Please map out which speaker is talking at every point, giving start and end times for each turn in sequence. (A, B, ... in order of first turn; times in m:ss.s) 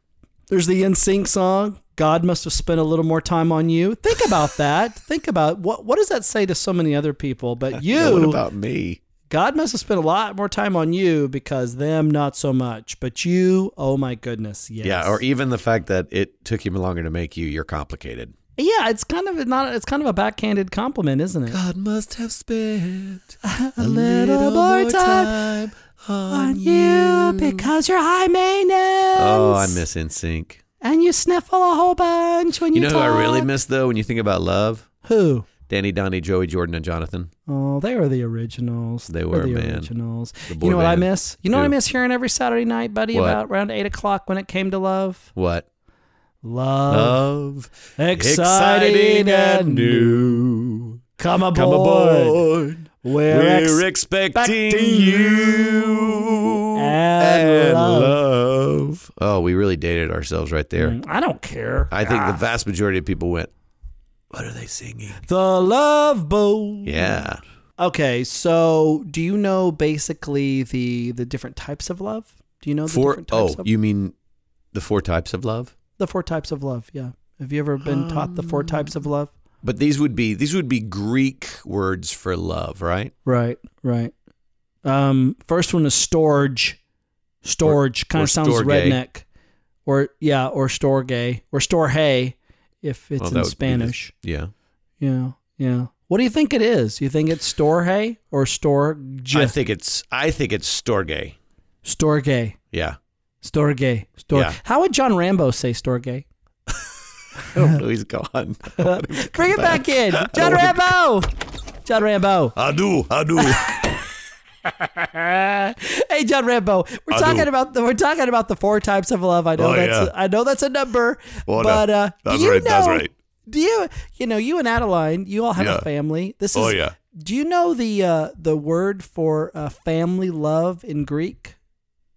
0:00.5-0:08.4 A
0:07.7-0:09.0 B
0:09.3-0:15.2 A
0:14.8-0:18.3 B
0:18.6-0:21.6 A
0:21.5-0:27.7 B
0:23.4-0:25.4 A
0:26.3-0:29.8 A
0:29.2-0:30.6 B
0:30.8-0:33.5 A
0:32.7-0:34.9 B
0:35.0-0:35.5 A
0:35.7-0:37.3 B
0:37.5-0:45.3 A
0:39.1-0:39.9 B
0:40.5-0:41.7 B
0:43.1-0:43.4 B
0:45.4-0:45.6 B
0:46.4-0:47.2 A
0:46.9-0:51.0 B
0:48.0-0:50.4 A
0:51.2-0:52.5 A
0:51.5-1:01.0 B
0:53.0-0:58.2 A
1:00.8-1:02.4 A
1:01.9-1:03.5 B
1:04.3-1:05.2 B
1:05.2-1:07.2 A
1:06.8-1:07.4 B
1:07.8-1:13.7 A
1:12.9-1:14.1 B
1:14.7-1:15.7 B
1:16.0-1:19.3 A
1:17.8-1:18.9 B
1:19.6-1:23.1 B
1:23.2-1:24.1 A
1:24.8-1:26.8 A
1:27.4-1:29.2 A
1:27.6-1:29.0 B
1:29.8-1:34.1 A
1:33.2-1:34.5 B
1:35.0-1:39.6 A
1:39.3-1:41.4 B
1:41.8-1:42.6 A
1:42.7-1:43.0 B
1:43.4-1:46.3 A
1:44.3-1:44.6 B
1:47.4-1:50.9 B
1:48.8-1:51.3 A
1:51.8-1:52.6 A
1:52.6-1:53.8 C
1:54.8-2:11.6 A
1:57.1-1:57.5 C
1:59.6-2:00.1 C
2:01.5-2:03.1 C
2:05.6-2:05.9 C
2:06.5-2:06.9 C